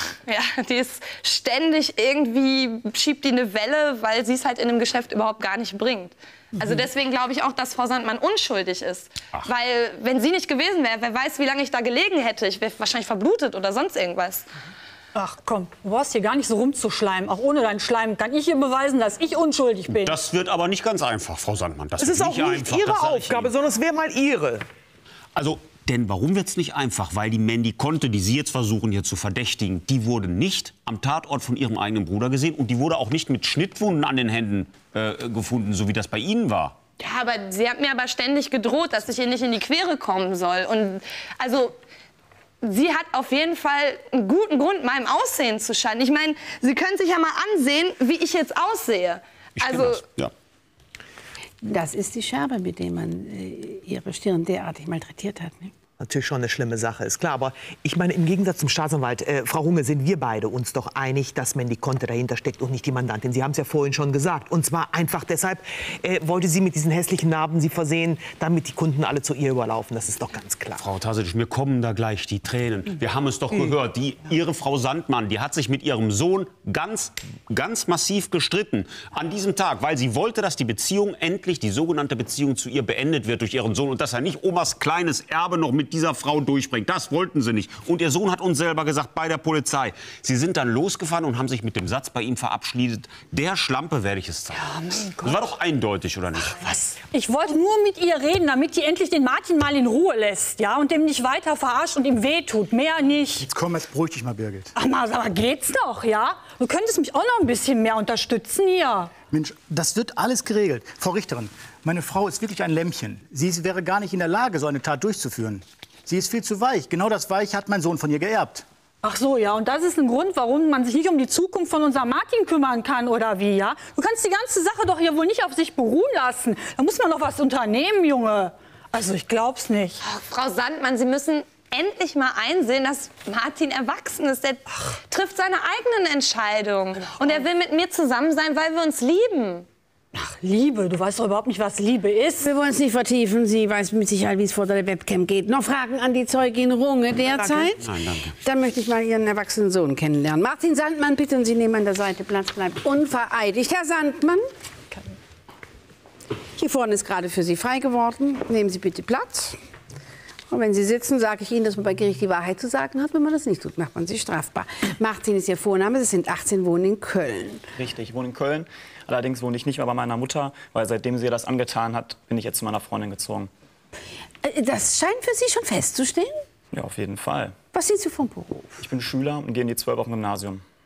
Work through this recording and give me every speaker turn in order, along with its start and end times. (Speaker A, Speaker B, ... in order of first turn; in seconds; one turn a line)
Speaker A: 0.2-14.5
Speaker B: 15.1-20.2
Speaker C: 19.9-23.5
Speaker D: 22.0-24.6
Speaker C: 25.4-36.8
Speaker A: 37.0-41.8
Speaker A: 42.6-50.0
Speaker C: 49.6-50.3
Speaker E: 51.6-55.7
Speaker D: 56.0-70.8
Speaker C: 70.8-96.5
Speaker B: 94.5-95.4
Speaker B: 96.6-103.5
Speaker F: 103.4-104.7
Speaker B: 104.7-109.1
Speaker F: 109.3-118.6
Speaker B: 119.0-130.0
Speaker A: 130.0-139.7
Speaker B: 140.1-142.5
Speaker E: 142.4-154.4
Speaker D: 147.3-147.7
Speaker C: 147.8-148.3
Speaker E: 156.6-159.6
Speaker E: 160.5-167.6
Speaker G: 167.8-173.5
Speaker E: 174.4-176.3
Speaker G: 176.7-177.5
Speaker E: 177.7-178.8
Speaker G: 178.8-180.6